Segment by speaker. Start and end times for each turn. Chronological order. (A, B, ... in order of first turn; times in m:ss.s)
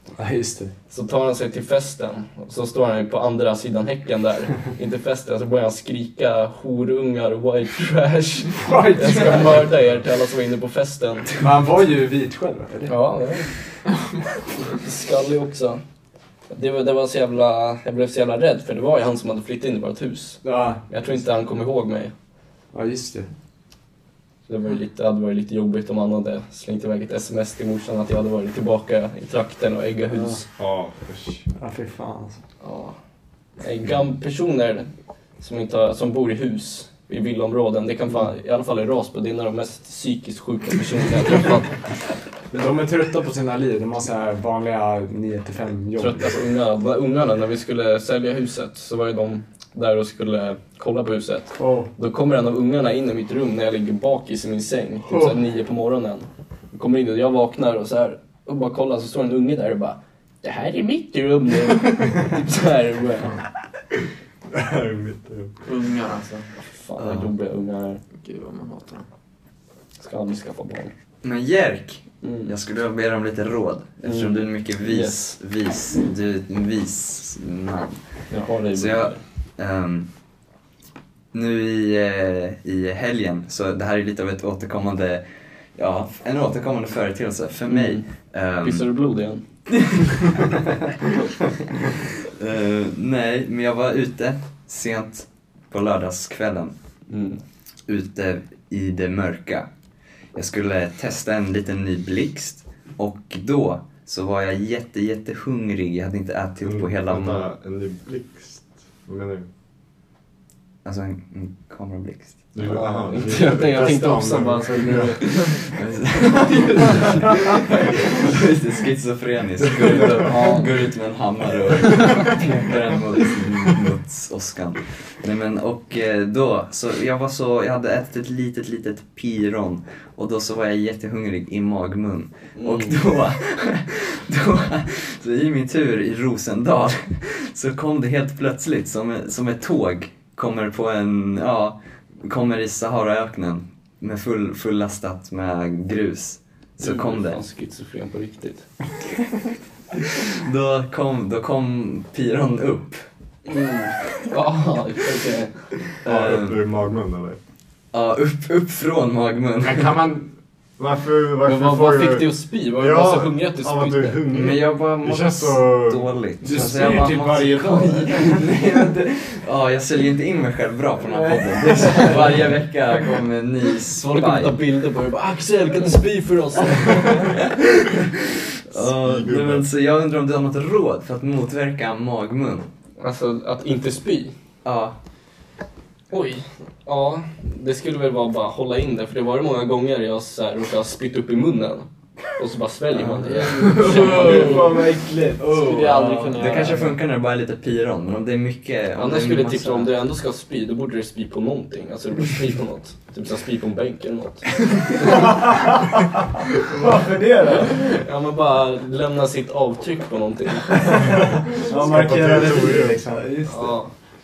0:00.2-0:00.7 A
0:00.9-0:11.4 B
0:08.6-0:09.7 A
0:11.4-0:13.0 A
0:12.9-0:13.5 B
0:14.7-0:15.8 B
0:16.5-0:22.1 B
0:20.4-0:20.8 A
0:22.7-0:23.3 A
0:24.5-0:30.4 B
0:30.6-0:31.4 C
0:31.6-0:32.4 A
0:32.6-0:33.0 B
0:33.6-0:34.9 B
0:35.4-0:41.9 B
0:42.5-0:46.3 A
0:46.0-1:03.4 B
0:51.6-0:51.9 A
1:04.5-1:05.5 C
1:05.6-1:06.5 D
1:06.6-1:08.0 B
1:08.2-1:09.1 D
1:10.0-1:10.9 B
1:11.2-1:18.0 E
1:12.2-1:12.5 B
1:14.0-1:15.4 B
1:18.3-1:19.2 B
1:18.7-1:20.1 E
1:21.3-1:28.9 E
1:27.7-1:28.1 B
1:28.6-1:29.4 B
1:32.3-1:36.7 E
1:37.1-1:37.4 B
1:37.9-1:39.7 E
1:40.4-1:47.5 E
1:46.6-1:49.5 C
1:50.8-1:52.6 E
1:52.6-1:55.5 C
1:52.7-1:55.7 B
1:55.6-2:27.4 E
1:56.4-1:57.5 B
1:59.7-2:00.7 B
2:00.0-2:00.3 C
2:12.6-2:13.0 B
2:26.8-2:28.7 B
2:30.3-2:33.1 E
2:33.5-2:35.7 B
2:36.0-2:36.6 E
2:36.1-2:37.4 C
2:37.9-2:39.9 E
2:39.6-2:46.1 C
2:41.4-2:44.2 B
2:44.3-2:54.6 E
2:46.4-2:48.6 A
2:51.1-2:52.2 A
2:54.0-2:57.5 B
2:57.2-3:02.7 E
2:58.8-2:59.6 C
3:03.0-3:04.3 B
3:04.6-3:05.0 E
3:06.1-3:14.8 B
3:13.0-3:13.5 E
3:13.3-3:17.0 D
3:13.3-3:16.3 A
3:16.3-3:19.9 E
3:19.0-3:25.3 B
3:25.0-3:26.1 A
3:26.7-3:27.8 A
3:27.6-3:31.4 B
3:30.9-3:33.8 A
3:31.7-3:33.0 C
3:33.5-3:33.9 B